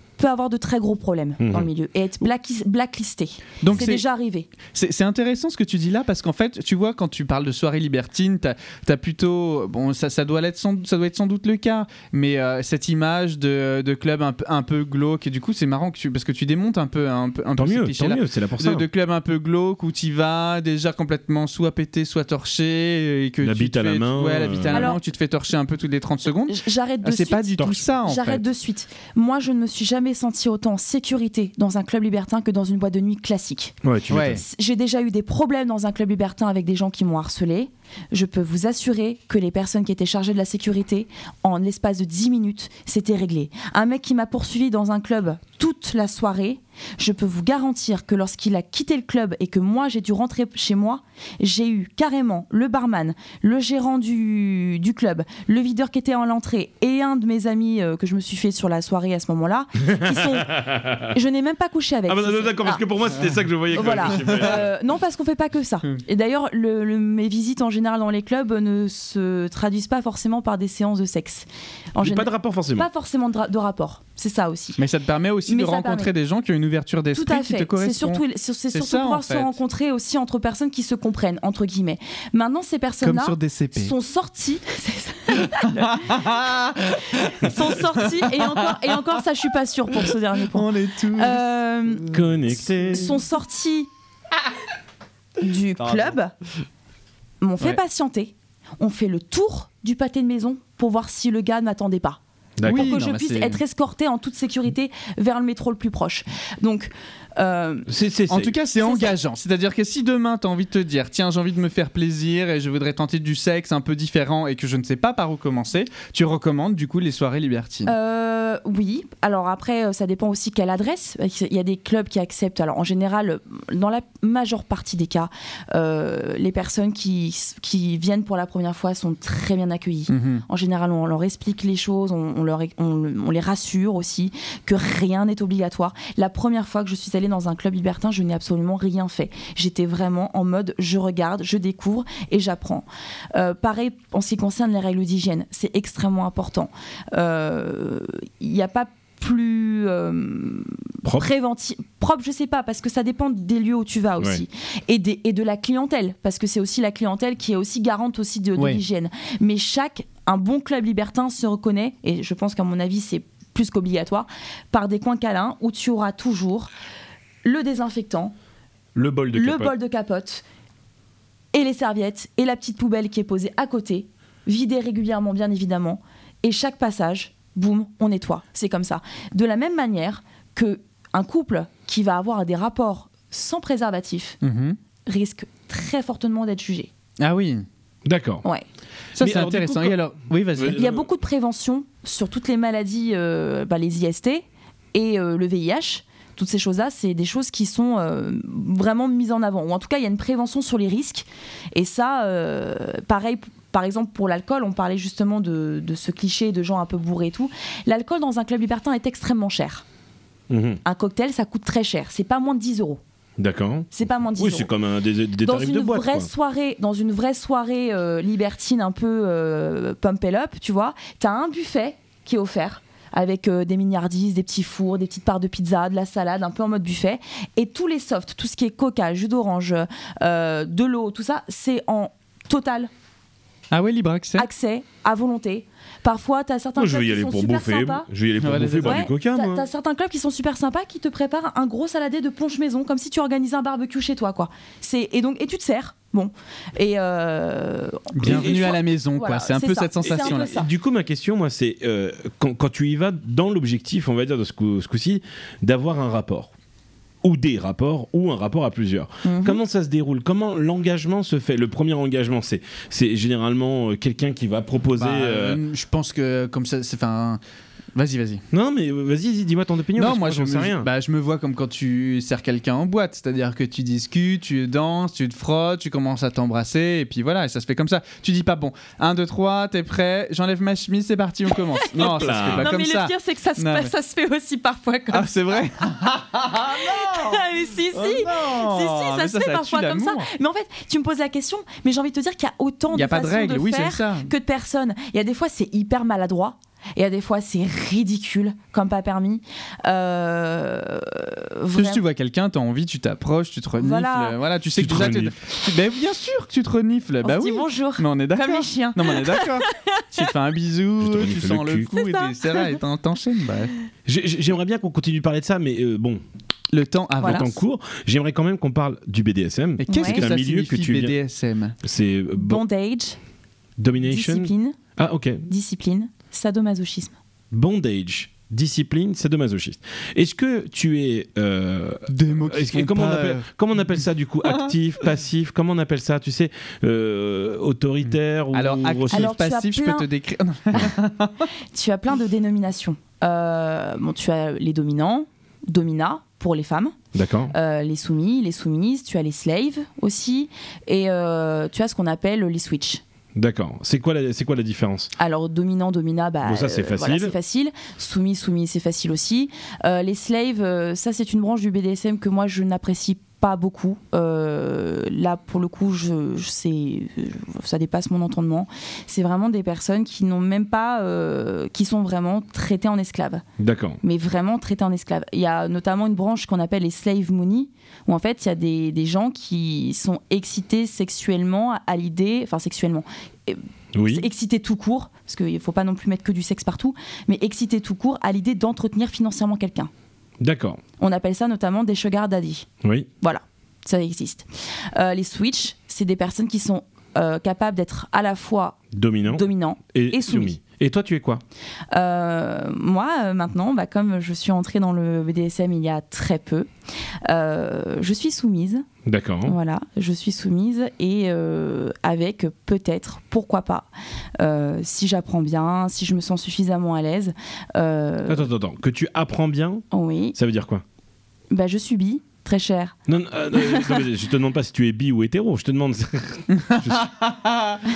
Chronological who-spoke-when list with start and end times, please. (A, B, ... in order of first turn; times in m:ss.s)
0:00.2-0:04.5 A
0:01.4-0:01.7 B
0:03.6-0:04.0 C
0:04.7-0:28.4 C
0:17.6-0:18.8 B
0:23.4-0:24.9 B
0:24.7-0:25.0 A
0:26.5-1:02.8 A
0:33.8-0:34.4 B
0:34.1-0:34.4 C
0:59.9-1:01.1 B
1:02.1-1:04.7 B
1:03.7-1:14.8 A
1:12.0-1:12.9 B
1:14.8-1:19.6 C
1:15.5-1:16.1 A
1:17.1-1:32.1 A
1:23.0-1:23.9 C
1:25.6-1:28.8 C
1:30.1-1:31.4 C
1:32.1-1:33.2 B
1:32.9-1:33.9 A
1:35.4-1:36.3 A
1:35.8-1:36.2 B
1:37.4-1:47.9 A
1:42.6-1:42.9 B
1:42.6-1:43.6 C
1:47.9-1:48.6 B
1:48.3-1:57.9 C
1:48.8-1:49.1 A
1:57.9-2:46.7 A
2:10.1-2:10.4 C
2:47.4-2:48.3 A
2:49.0-2:49.7 B
2:49.3-2:50.4 A
2:51.5-3:04.4 A
3:04.4-3:04.8 C
3:05.1-3:06.9 A
3:07.2-3:07.7 C
3:08.1-3:08.4 B
3:09.2-3:10.8 C
3:09.2-3:10.0 B
3:10.6-3:11.0 B
3:10.7-3:29.8 A
3:30.5-3:30.8 B
3:30.8-3:33.0 A
3:33.4-3:36.3 B
3:33.9-3:34.7 A
3:35.4-3:52.9 A
3:53.7-3:54.5 C
3:54.4-3:58.1 A
3:56.8-3:59.7 B
3:58.4-3:59.1 C
3:58.8-4:10.7 A
4:08.1-4:10.5 C
4:08.2-4:08.7 B
4:10.0-4:16.5 B
4:17.2-4:25.6 B
4:19.2-4:19.6 A
4:25.0-4:27.4 C
4:28.0-4:28.4 C
4:28.5-4:30.9 B
4:30.0-4:43.9 C
4:42.0-4:42.7 B
4:42.5-4:45.6 A
4:45.1-4:50.3 C
4:46.7-5:02.0 A
4:52.9-4:54.3 C
5:01.7-5:13.7 C
5:03.8-5:04.4 A
5:04.8-5:05.4 B
5:07.2-5:10.2 A
5:11.0-5:11.9 B
5:11.9-5:12.8 A
5:14.1-5:16.2 B
5:16.7-5:17.6 C
5:17.2-5:17.5 A
5:17.2-5:21.2 B
5:19.8-5:21.8 C
5:19.9-5:20.2 A
5:21.8-5:22.6 B
5:22.4-5:23.2 A
5:23.8-5:25.5 B
5:24.0-5:24.8 A
5:25.5-5:27.2 A
5:27.5-5:39.4 B
5:32.1-5:33.5 C
5:34.4-5:34.7 C
5:38.5-5:41.5 C
5:39.1-5:40.1 A
5:41.7-5:47.0 A
5:47.1-5:47.5 B
5:47.5-5:53.0 A
5:53.4-5:55.1 B
5:55.2-6:13.4 A
5:56.4-5:57.4 B
6:13.6-6:14.0 B
6:14.0-6:29.9 A
6:23.9-6:24.3 B
6:30.4-6:30.8 B
6:31.0-6:32.7 A
6:32.8-6:33.1 B
6:33.2-6:40.6 A
6:38.9-6:41.4 B
6:41.9-6:46.7 A
6:47.3-6:48.9 A
6:49.0-6:49.6 B
6:49.4-6:58.5 A
6:58.3-7:00.8 B
6:59.9-7:00.4 A
7:01.5-7:03.0 A
7:03.1-7:07.1 B
7:03.6-7:04.0 A
7:06.5-7:07.8 C